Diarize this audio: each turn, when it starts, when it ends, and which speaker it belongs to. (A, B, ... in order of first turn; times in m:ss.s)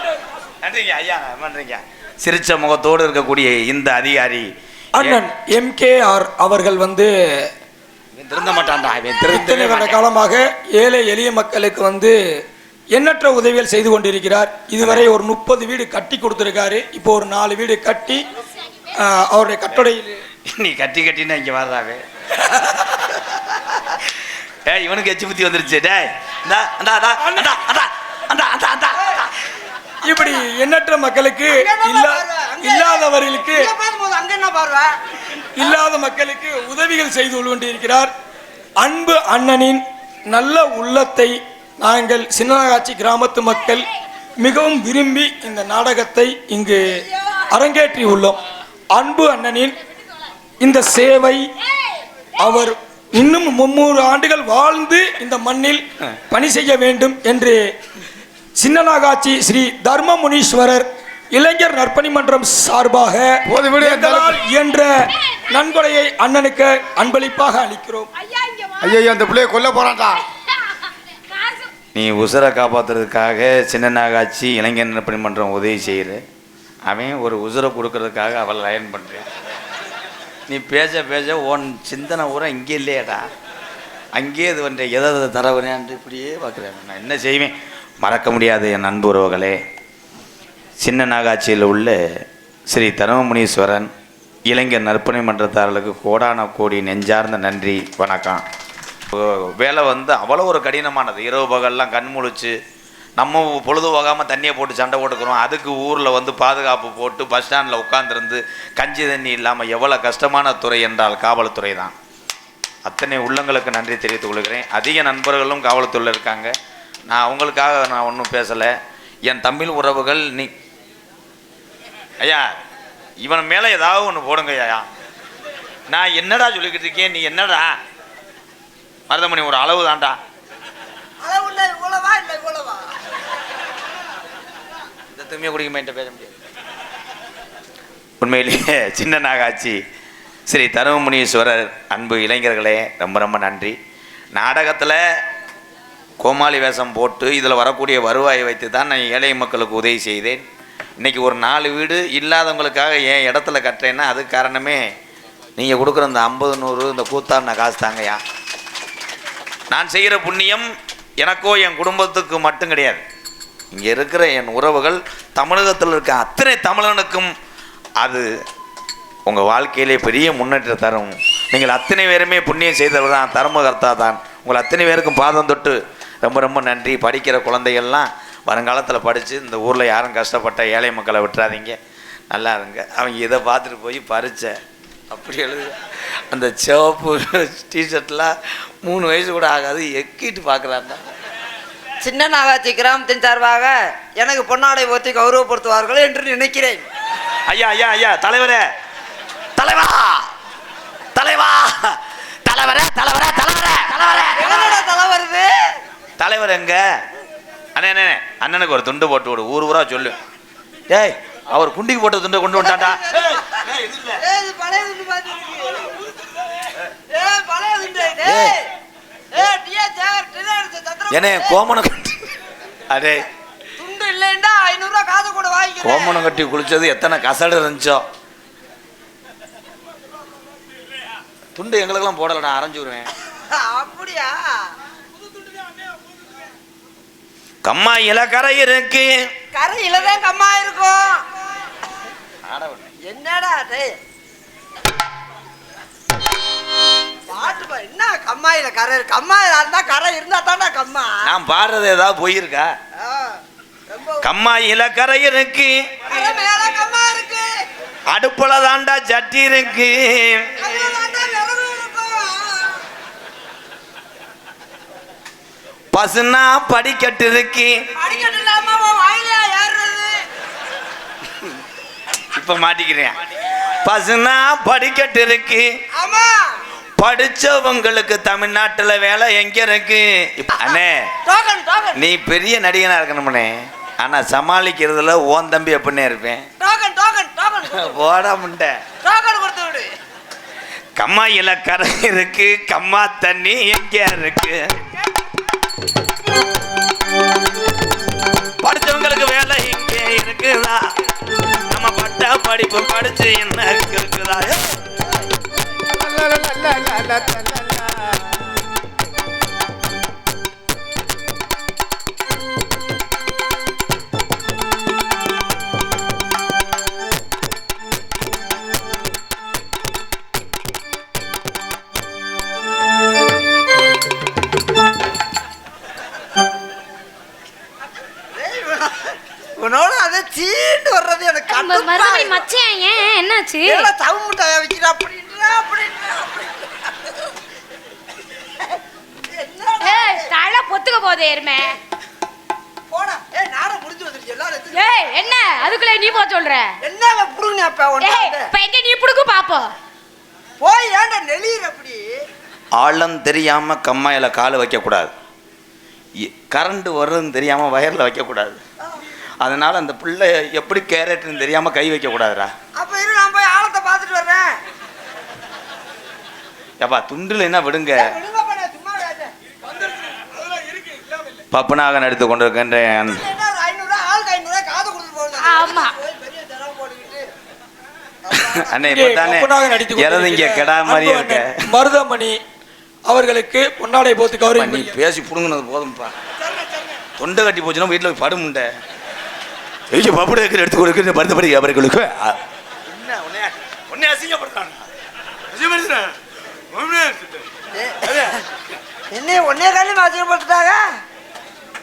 0:00.6-0:05.2 A
0:04.9-0:07.5 B
0:08.1-0:10.0 A
0:09.3-0:12.2 B
0:12.9-0:18.2 B
0:14.8-0:15.1 A
0:18.9-0:20.2 B
0:20.5-0:22.0 A
0:22.7-0:24.1 A
0:24.7-0:29.3 A
0:27.2-0:27.5 B
0:30.0-0:33.7 B
0:31.5-0:34.9 C
0:35.6-0:38.1 B
0:38.8-0:43.9 B
0:44.4-0:48.4 B
0:48.9-0:49.8 B
0:50.6-0:51.5 B
0:52.4-0:57.6 B
0:58.6-1:08.1 B
1:03.5-1:04.4 D
1:08.2-1:09.0 E
1:08.8-1:10.2 D
1:10.2-1:11.7 E
1:12.0-1:16.2 A
1:16.9-1:19.3 A
1:20.5-1:23.3 A
1:24.2-1:29.6 A
1:30.8-1:32.0 A
1:32.7-1:33.9 A
1:34.5-1:38.4 A
1:39.1-1:42.5 A
1:43.2-1:51.9 A
1:52.9-1:56.5 A
1:57.1-1:58.7 A
1:59.2-2:00.5 A
2:02.2-2:02.5 A
2:03.2-2:04.9 A
2:05.9-2:07.8 A
2:09.1-2:10.2 A
2:11.2-2:12.9 C
2:15.1-2:16.4 A
2:18.2-2:19.8 A
2:20.5-2:23.8 A
2:24.3-2:25.0 A
2:26.2-2:30.4 A
2:31.0-2:34.8 A
2:35.6-2:38.2 A
2:39.7-2:40.7 A
2:41.2-2:43.0 A
2:43.7-2:47.3 A
2:48.0-2:48.3 A
2:49.3-3:01.8 A
3:02.3-3:04.6 A
3:05.1-3:11.0 A
3:12.0-3:16.9 C
3:17.5-3:18.6 A
3:19.6-3:20.3 A
3:21.2-3:24.7 A
3:24.4-3:25.8 C
3:26.2-3:26.8 A
3:27.8-3:30.2 A
3:30.9-3:34.2 A
3:32.6-3:33.6 C
3:34.2-3:36.0 C
3:37.1-3:38.7 C
3:38.2-3:38.6 A
3:39.3-3:41.6 C
3:41.1-3:42.3 A
3:42.9-3:43.3 A
3:43.8-3:46.3 C
3:45.8-3:48.0 A
3:51.6-3:53.1 A
3:53.5-3:54.4 C
3:57.6-3:59.2 A
3:59.5-4:01.2 C
4:02.5-4:02.9 A
4:03.0-4:04.0 C
4:07.3-4:11.3 C
4:11.2-4:12.7 A
4:13.0-4:14.3 C
4:14.2-4:16.0 A
4:16.1-4:17.5 C
4:18.1-4:20.7 A
4:20.6-4:22.8 C
4:25.9-4:27.7 A
4:28.0-4:30.2 C
4:32.3-4:33.2 A
4:33.7-4:35.7 A
4:36.0-4:36.4 C
4:37.0-4:41.1 A
4:41.3-4:42.0 C
4:42.0-4:46.5 A
4:46.6-4:48.0 C
4:47.7-4:48.8 A
4:49.0-4:49.9 C
4:51.0-4:54.6 A
4:58.6-5:00.8 A
5:01.7-5:04.6 A
5:06.1-5:07.8 D
5:28.3-5:32.5 C
5:31.5-5:33.9 E
5:33.6-5:37.1 C
5:39.3-5:40.3 C
5:39.8-5:41.8 E
5:42.9-5:45.0 C
5:44.7-5:46.7 E
5:46.8-5:48.5 C
5:48.0-5:49.7 E
5:50.6-5:52.1 C
5:52.8-5:55.1 A
5:56.2-5:58.6 A
5:59.4-6:02.5 A
6:02.8-6:04.5 C
6:06.8-6:08.1 A
6:08.0-6:09.3 C
6:11.5-6:13.2 A
6:13.1-6:17.3 C
6:15.4-6:16.0 E
6:18.2-6:18.7 C
6:18.4-6:21.5 A
6:18.8-6:22.4 B
6:23.1-6:25.0 B
6:24.4-6:26.2 A
6:27.2-6:28.7 A
6:29.9-6:34.9 A
6:35.5-6:36.2 A
6:36.7-6:37.5 A
6:37.7-6:38.4 C
6:38.0-6:38.4 A
6:39.1-6:40.8 C